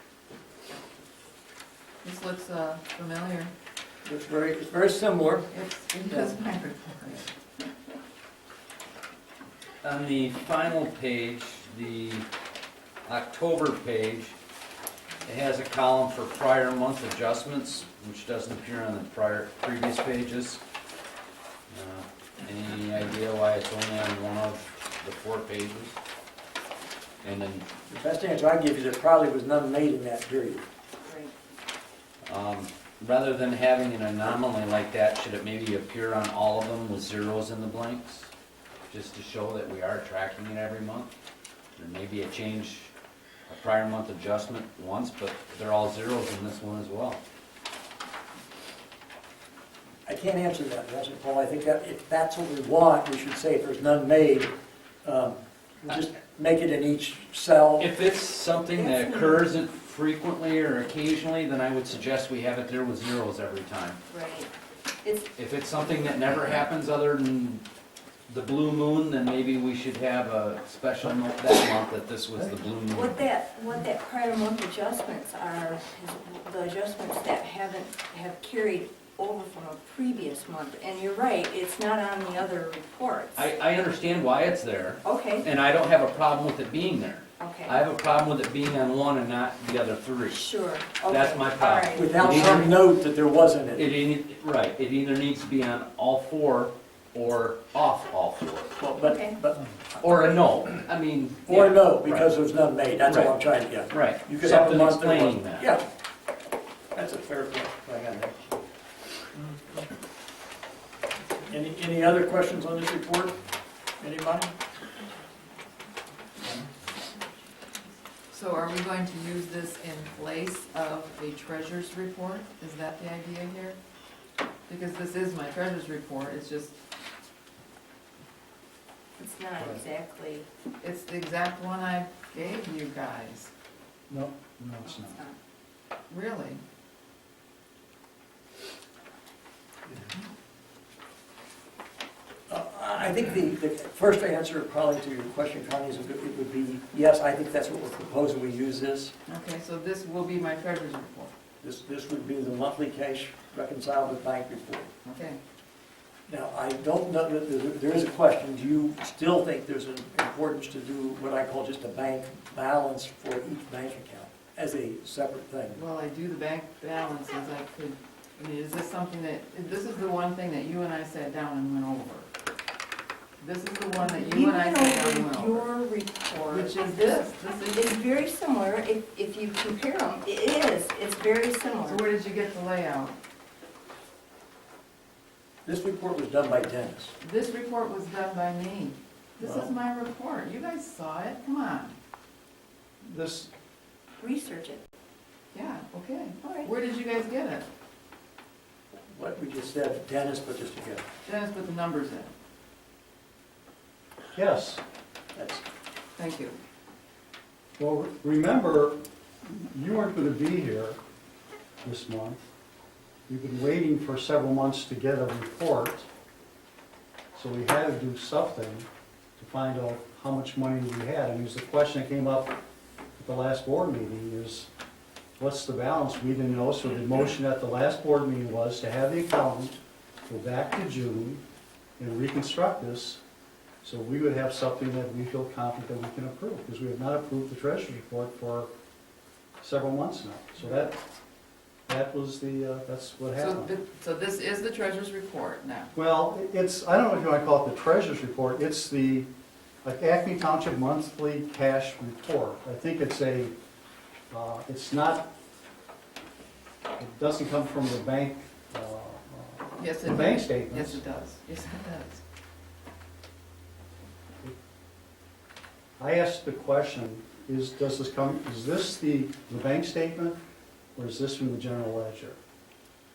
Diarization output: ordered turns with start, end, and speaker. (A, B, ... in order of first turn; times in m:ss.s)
0:02.0-0:03.5 A
0:04.0-0:05.5 B
0:05.5-0:07.3 A
0:06.1-0:06.3 B
0:09.8-0:12.2 C
0:13.0-0:14.4 C
0:15.2-0:20.6 C
0:21.7-0:26.0 C
0:27.2-0:27.6 C
0:27.9-0:30.6 B
0:31.0-0:31.3 D
0:32.2-0:38.3 C
0:38.9-0:41.1 C
0:41.8-0:42.9 C
0:43.5-0:47.2 C
0:50.0-0:54.5 B
0:55.0-0:57.9 B
0:57.8-1:04.0 C
0:58.7-0:59.4 D
1:04.1-1:04.5 D
1:05.4-1:07.6 C
1:08.3-1:13.2 C
1:12.9-1:23.4 D
1:23.4-1:30.4 C
1:25.0-1:25.4 D
1:27.4-1:27.8 D
1:30.3-1:32.4 D
1:31.0-1:32.8 C
1:31.9-1:33.9 B
1:33.8-1:38.7 C
1:38.8-1:39.7 B
1:39.0-1:39.4 D
1:40.0-1:42.3 C
1:41.5-1:45.8 B
1:43.9-1:45.7 C
1:46.9-1:48.5 B
1:51.5-1:53.4 B
1:54.0-1:54.5 B
1:58.3-2:03.8 A
2:04.7-2:06.8 A
2:09.2-2:10.5 D
2:10.8-2:13.5 A
2:14.1-2:15.2 E
2:14.8-2:15.4 D
2:16.1-2:16.6 A
2:22.5-2:29.1 B
2:29.3-2:31.3 A
2:31.6-2:34.9 B
2:35.0-2:35.4 A
2:36.3-2:45.8 B
2:45.7-2:52.3 A
2:53.4-2:55.7 A
2:54.0-3:02.0 D
2:56.5-2:57.7 A
3:01.8-3:03.1 A
3:05.6-3:07.1 B
3:07.2-3:12.0 A
3:09.4-3:09.7 B
3:13.0-3:13.5 E
3:14.2-3:14.8 D
3:15.5-3:17.7 A
3:16.4-3:16.7 D
3:19.1-3:21.0 B
3:21.2-3:22.3 A
3:24.3-3:24.8 E
3:25.3-3:25.6 B
3:26.2-3:26.6 A
3:27.8-3:31.0 E
3:31.8-3:32.4 E
3:33.3-3:36.1 E
3:37.3-3:42.5 E
3:43.2-3:44.7 E
3:45.4-3:51.4 E
3:52.0-3:53.2 E
3:53.8-3:58.7 E
3:59.6-4:01.0 E
4:01.9-4:03.7 E
4:03.4-4:05.9 A
4:05.9-4:09.3 E
4:09.8-4:13.5 E
4:14.3-4:15.3 E
4:17.0-4:21.0 E
4:19.8-4:22.2 A
4:26.0-4:30.4 E
4:31.0-4:32.4 E